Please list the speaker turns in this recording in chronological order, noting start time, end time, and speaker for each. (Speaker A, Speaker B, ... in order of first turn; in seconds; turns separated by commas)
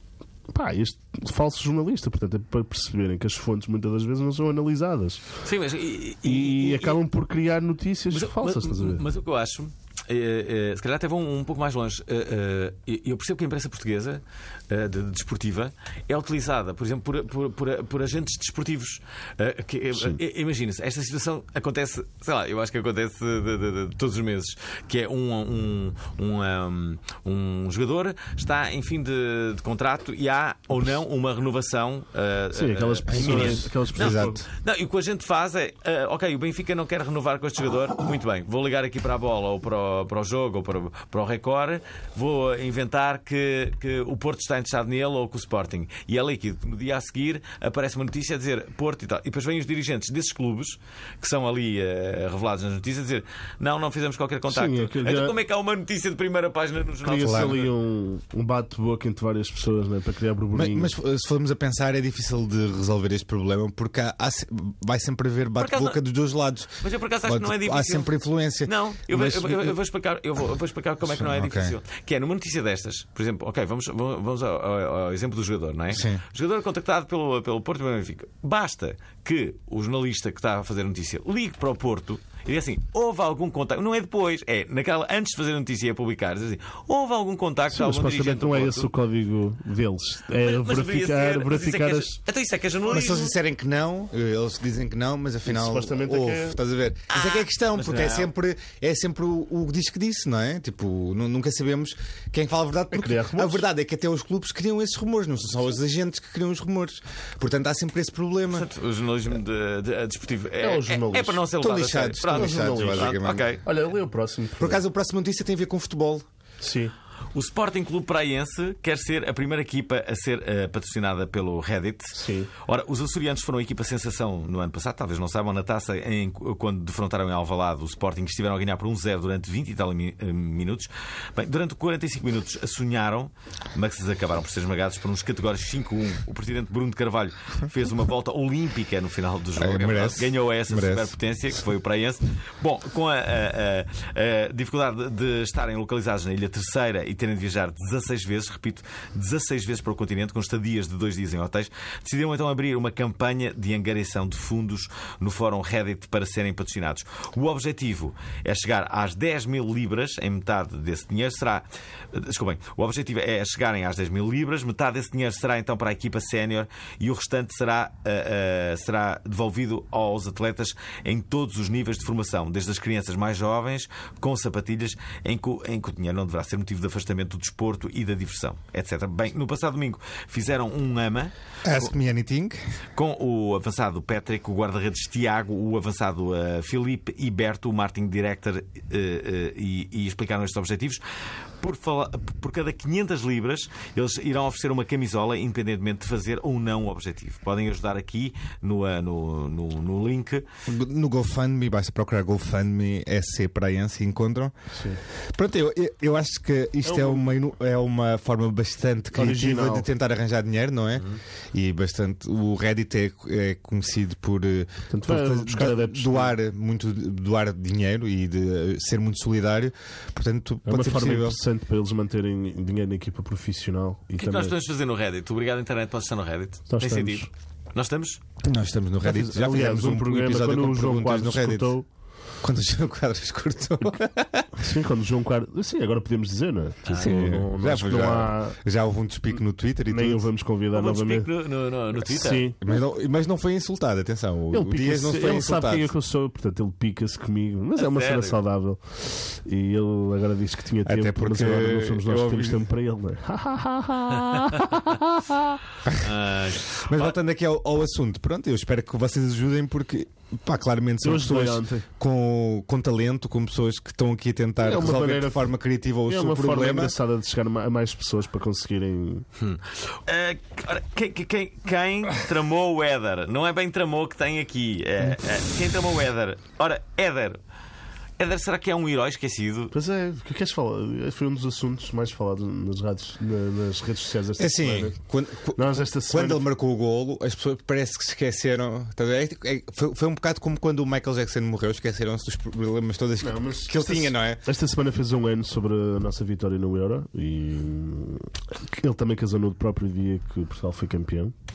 Speaker A: 0.5-5.2, Speaker B: 5.4-7.0, Speaker A: 6.2-9.0, Speaker B: 8.1-57.7, Speaker A: 19.9-20.2, Speaker A: 32.5-34.4, Speaker C: 33.1-34.4, Speaker A: 54.5-55.4, Speaker A: 57.0-60.9, Speaker C: 57.2-57.6, Speaker C: 60.5-69.7, Speaker B: 65.6-66.0, Speaker B: 66.8-68.1, Speaker B: 68.6-88.9, Speaker C: 71.0-71.8, Speaker C: 75.9-76.2, Speaker A: 87.7-92.2, Speaker B: 90.4-93.3, Speaker C: 92.9-108.7, Speaker A: 95.5-96.6, Speaker B: 97.1-98.3, Speaker A: 102.9-103.6, Speaker B: 108.5-113.6, Speaker A: 110.6-111.4, Speaker C: 111.6-113.5, Speaker A: 112.3-114.8, Speaker C: 114.6-116.2, Speaker A: 116.6-116.9, Speaker B: 117.3-181.9, Speaker A: 122.1-122.5, Speaker C: 139.6-141.1, Speaker C: 181.6-182.6, Speaker B: 182.9-191.0, Speaker B: 191.6-200.4, Speaker C: 200.7-204.5, Speaker A: 204.7-205.0, Speaker C: 205.3-221.4, Speaker A: 206.8-207.3, Speaker A: 209.1-209.9, Speaker A: 214.9-216.3, Speaker A: 220.7-224.5, Speaker B: 224.2-228.2, Speaker A: 226.7-227.3, Speaker C: 228.4-231.7, Speaker A: 229.0-231.8, Speaker C: 232.4-234.5, Speaker A: 234.6-238.6, Speaker B: 236.9-237.3, Speaker C: 236.9-240.2, Speaker A: 239.9-241.3, Speaker B: 240.7-242.5, Speaker A: 242.0-242.6, Speaker C: 242.6-245.9, Speaker A: 244.5-255.6, Speaker B: 247.8-248.4, Speaker C: 250.8-252.7, Speaker B: 255.9-257.1, Speaker C: 256.8-266.9, Speaker A: 261.0-261.8, Speaker A: 264.6-265.5, Speaker A: 266.1-269.2, Speaker B: 269.4-277.4, Speaker B: 278.2-279.7, Speaker A: 279.7-284.9, Speaker C: 284.4-294.4, Speaker A: 285.6-286.4, Speaker A: 293.2-301.3